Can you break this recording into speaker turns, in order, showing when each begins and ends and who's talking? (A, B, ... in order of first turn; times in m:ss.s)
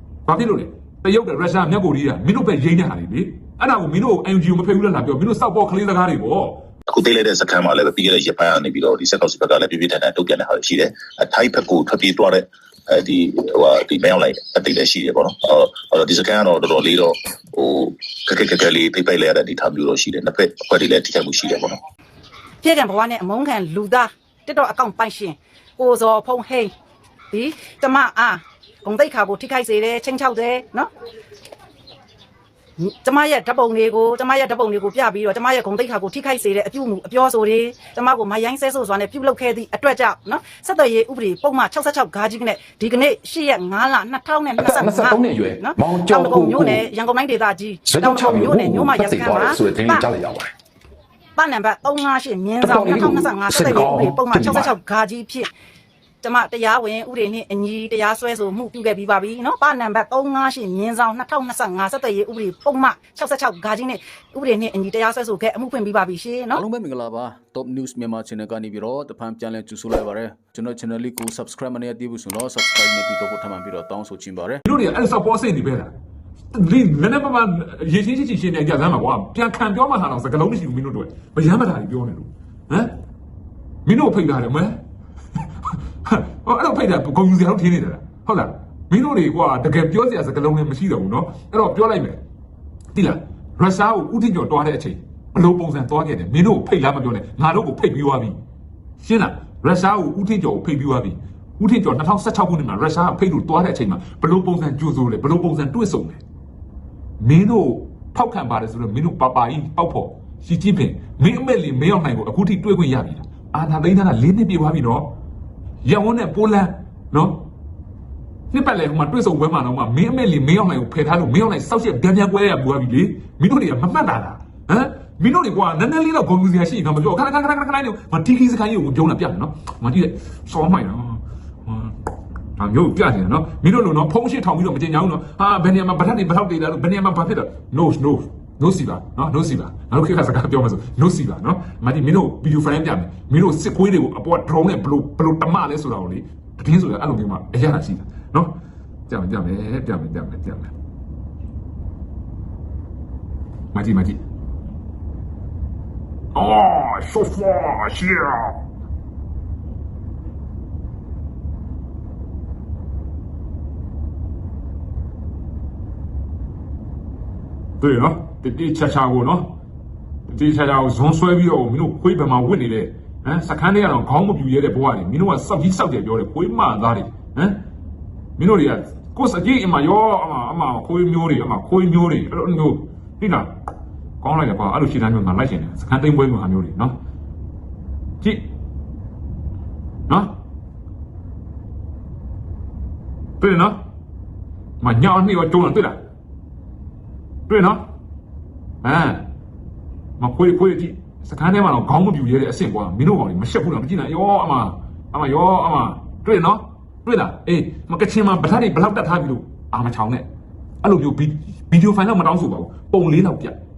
0:00.3-0:06.6 A
0:06.9-0:21.8 B
0:22.6-0:26.7 C
0:27.3-0:30.9 C
0:32.8-0:50.1 C
0:44.6-0:46.8 D
0:47.8-0:50.5 D
0:51.4-0:55.5 C
0:52.6-0:54.7 D
0:56.2-1:06.6 C
1:06.6-1:14.6 E
1:14.6-1:15.9 A
1:16.5-1:22.9 A
1:23.8-1:24.8 A
1:25.7-1:32.2 A
1:32.9-1:38.4 A
1:39.0-1:46.2 A
1:47.2-1:55.1 A
1:55.8-1:57.4 A
1:58.5-2:11.9 A
2:12.6-2:28.5 A
2:29.1-2:30.7 A
2:33.7-2:34.2 A
2:36.3-2:38.6 A
2:47.8-2:49.5 A
2:50.3-2:57.6 A
2:58.4-3:03.5 A
3:04.2-3:06.9 A
3:13.4-3:13.8 A
3:14.8-3:16.0 A
3:17.5-3:17.8 A
3:18.8-3:19.2 A
3:20.2-3:30.2 A
3:30.8-3:33.6 A